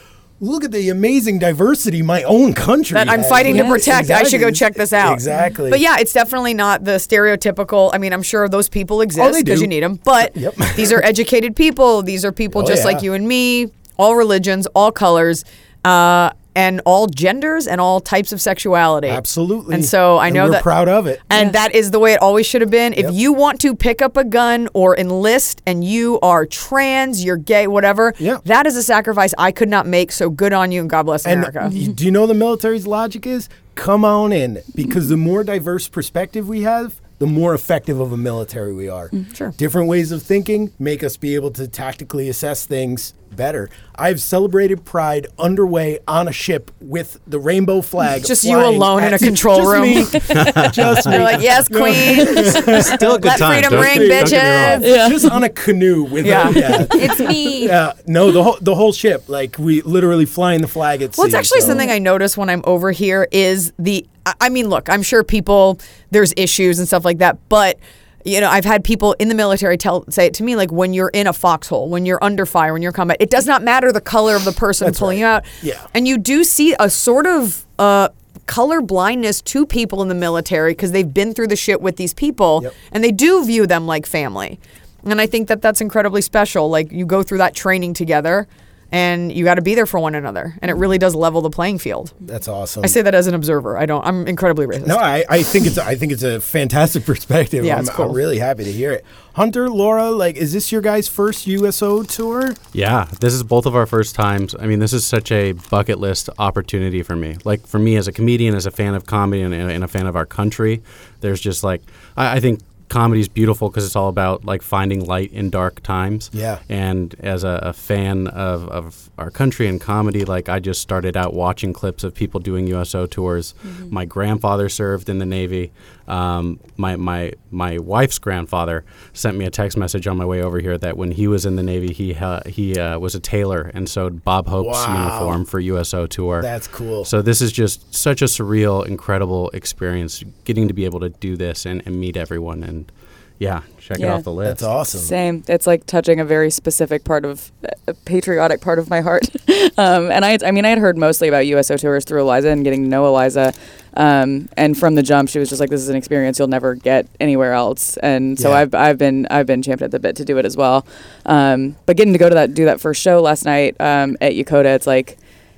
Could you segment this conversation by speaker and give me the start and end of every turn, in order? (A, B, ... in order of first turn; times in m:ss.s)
0:00.4-0:05.8 A
0:02.9-0:31.8 B
0:03.5-0:03.8 C
0:09.2-0:11.1 A
0:12.5-0:13.1 A
0:19.1-0:21.2 A
0:31.2-1:01.9 A
0:39.3-0:39.6 B
0:48.2-0:50.2 B
0:50.3-0:51.3 D
0:51.0-0:55.0 B
0:52.4-0:52.8 C
0:52.8-0:54.9 D
0:54.8-0:55.2 C
0:56.2-0:57.8 B
0:56.8-0:57.2 C
1:01.2-1:32.1 B
1:14.8-1:15.9 A
1:32.2-1:33.0 A
1:32.8-1:35.0 B
1:34.8-1:42.6 A
1:37.6-1:38.2 B
1:42.7-2:16.5 D
1:56.3-1:56.6 A
2:14.6-2:15.4 A
2:16.4-2:17.1 A
2:17.0-2:24.7 D
2:24.0-2:24.3 C
2:24.4-2:25.1 A
2:24.8-2:45.2 C
2:38.4-2:38.6 A